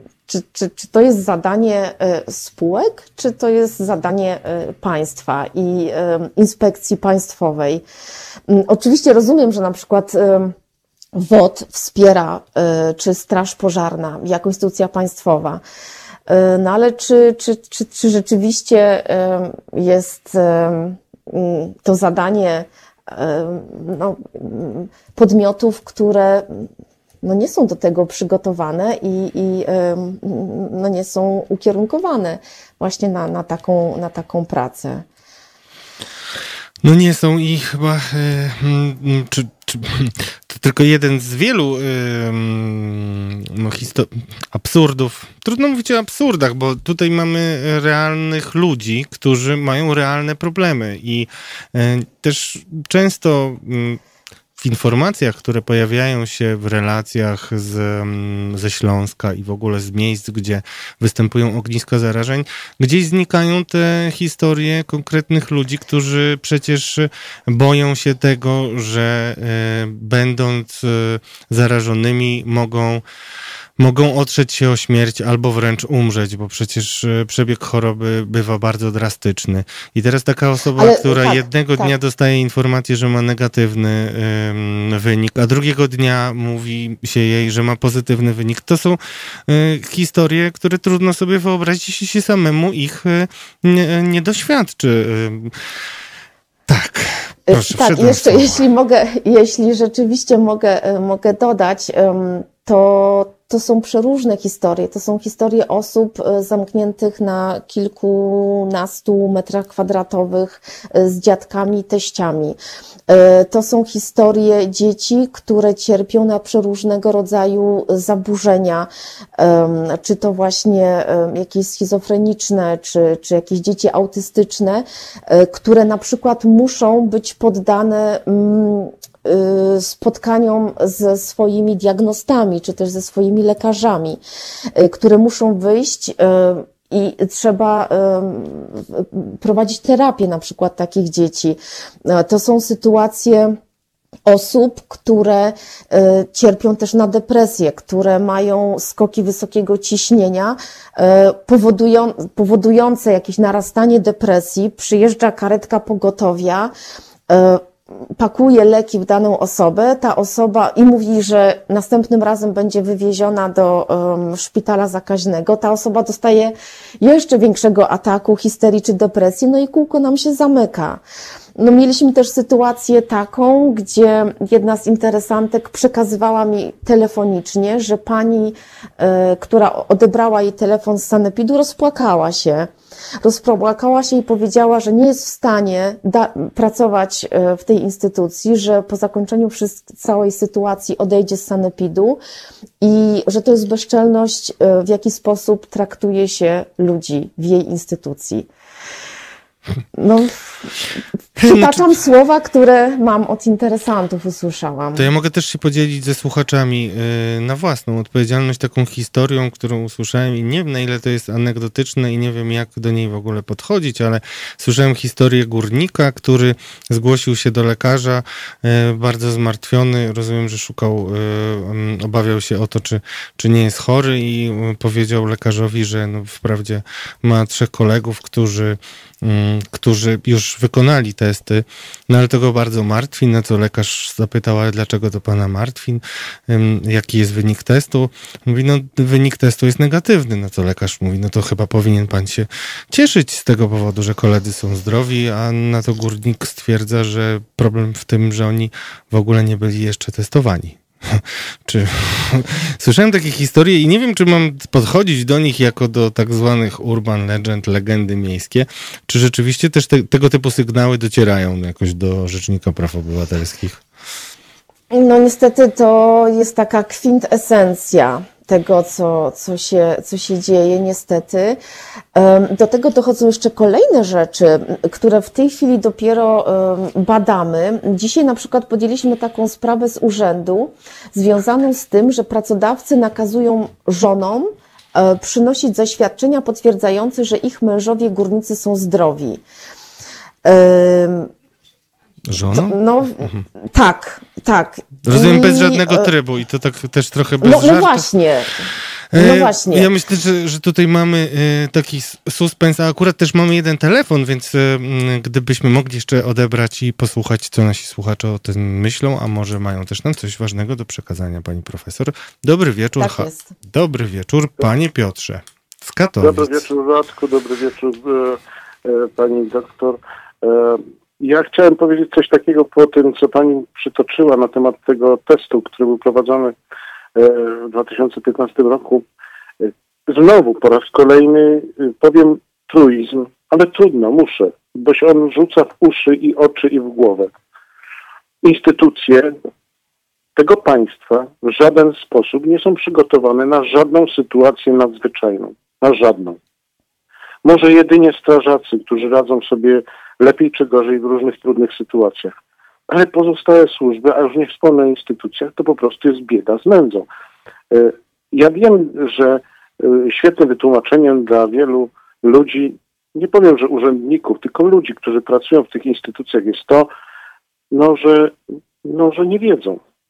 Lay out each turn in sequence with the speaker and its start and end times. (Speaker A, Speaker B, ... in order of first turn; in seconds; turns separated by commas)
Speaker A: 0.3-7.8, Speaker A: 8.5-10.6, Speaker A: 11.1-15.6, Speaker A: 16.3-26.7, Speaker A: 27.2-35.1, Speaker B: 36.8-54.0, Speaker B: 54.6-73.0, Speaker B: 73.8-95.5, Speaker A: 80.8-81.9, Speaker B: 96.7-98.6, Speaker A: 97.5-134.2, Speaker A: 134.8-143.6, Speaker A: 144.3-156.7, Speaker A: 157.3-171.0, Speaker A: 171.6-192.2, Speaker A: 192.8-198.5, Speaker A: 199.9-200.7, Speaker A: 201.4-205.1, Speaker B: 201.4-201.8, Speaker B: 204.9-263.8, Speaker A: 264.9-271.6, Speaker A: 272.1-289.4, Speaker A: 290.4-291.3, Speaker B: 292.3-293.4, Speaker A: 292.5-296.1, Speaker B: 295.1-298.1, Speaker A: 297.4-299.9, Speaker B: 299.1-316.7, Speaker A: 313.0-313.5, Speaker C: 316.2-326.6, Speaker C: 327.1-329.1, Speaker C: 329.6-337.3, Speaker C: 338.4-339.4, Speaker C: 340.4-346.4, Speaker C: 347.4-352.3, Speaker C: 352.9-357.1, Speaker C: 357.7-366.9, Speaker C: 367.7-369.8